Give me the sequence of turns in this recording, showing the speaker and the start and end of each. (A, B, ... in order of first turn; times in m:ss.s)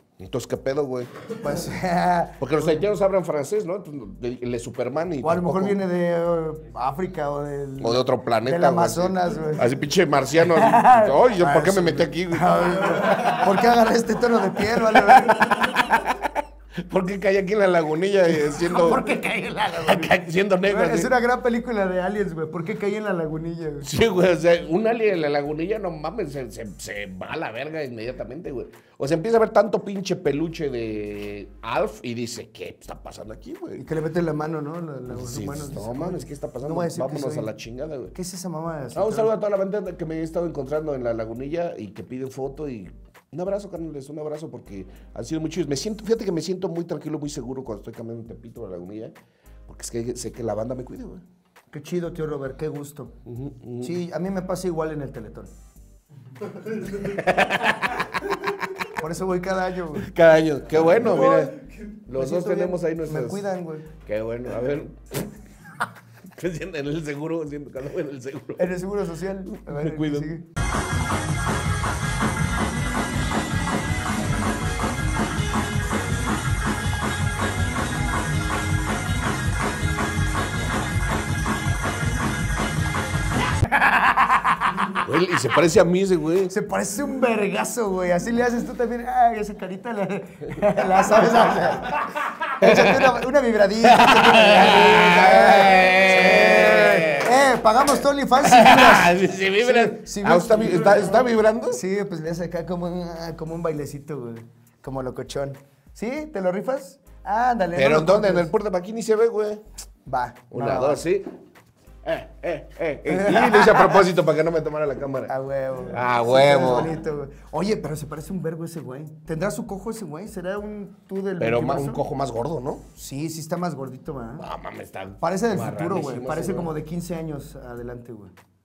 0:00.2-0:01.3 A
0:01.3-0:02.8 B
0:02.4-0:05.8 A
0:05.2-0:09.8 B
0:07.8-0:13.4 A
0:10.5-0:15.8 B
0:14.7-0:19.1 A
0:18.4-0:23.9 B
0:19.7-0:21.1 A
0:23.8-0:33.8 A
0:33.8-0:37.5 B
0:35.1-0:38.1 A
0:38.1-0:39.3 B
0:38.9-0:51.2 A
0:51.7-0:53.1 B
0:53.2-0:54.0 A
0:53.8-0:55.5 B
0:56.9-0:58.2 A
0:58.9-1:00.1 B
0:59.9-1:05.4 A
1:01.0-1:01.6 B
1:02.1-1:03.9 B
1:06.3-1:08.8 A
1:08.6-1:10.4 B
1:09.4-1:10.3 A
1:25.0-1:26.5 A
1:26.5-1:48.5 B
1:32.6-1:33.2 A
1:33.8-1:41.8 A
1:47.7-1:49.6 A
1:50.0-1:51.0 B
1:50.5-1:51.3 A
1:52.0-1:55.3 A
1:53.1-1:54.1 B
1:55.3-2:02.0 B
1:55.9-1:57.0 A
2:01.4-2:02.8 A
2:03.0-2:04.4 B
2:04.4-2:06.7 A
2:05.2-2:08.3 B